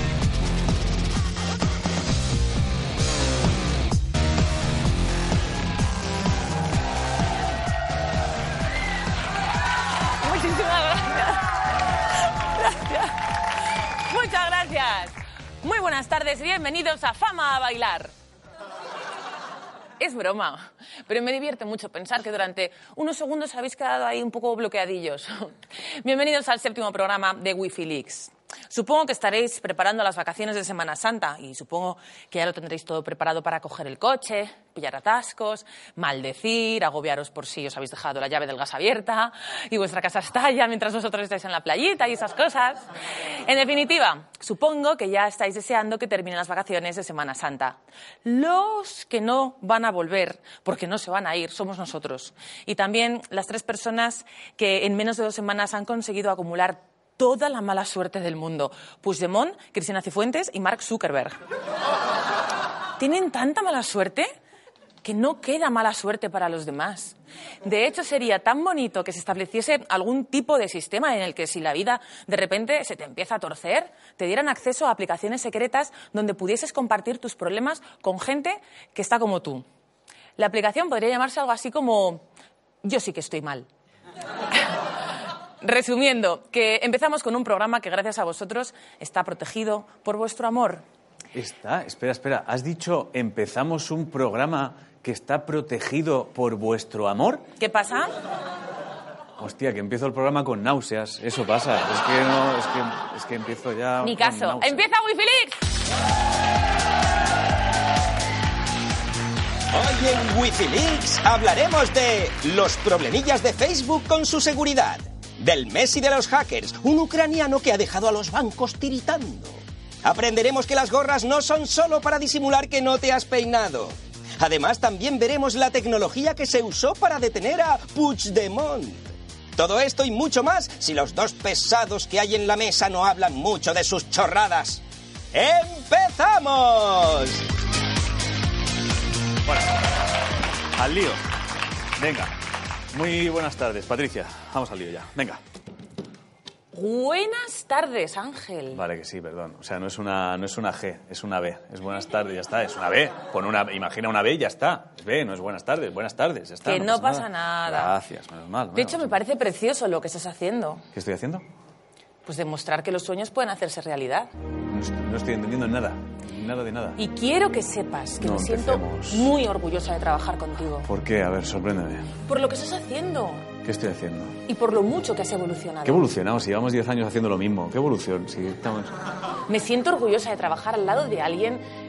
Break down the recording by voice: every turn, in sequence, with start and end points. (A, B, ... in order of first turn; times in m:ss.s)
0:10.2-0:11.5 A
0:12.5-0:13.2 A
0:14.0-0:18.1 A
0:20.0-0:42.9 A
0:43.4-1:01.4 A
1:03.0-1:04.3 A
1:05.0-1:19.7 A
1:20.4-1:22.2 A
1:22.8-1:23.7 A
1:25.6-1:30.8 A
1:31.3-1:37.5 B
1:37.6-1:38.1 A
1:39.4-1:44.8 B
1:44.0-1:45.6 A
1:49.7-2:17.4 C
2:19.5-2:19.7 B
2:20.8-2:21.2 B
2:22.0-2:22.3 B
2:22.9-2:25.4 B
2:26.7-2:28.8 A
2:28.7-2:39.1 B
2:36.6-2:37.9 A
2:38.7-2:40.8 A
2:40.9-2:41.4 B
2:42.3-2:44.3 A
2:44.7-2:47.0 B
2:47.0-2:50.9 A
2:48.2-2:49.3 B
2:50.8-2:52.1 B
2:52.3-2:53.5 A
2:53.6-2:54.4 B
2:54.5-2:56.1 A
2:55.8-2:58.9 B
2:59.5-3:01.6 A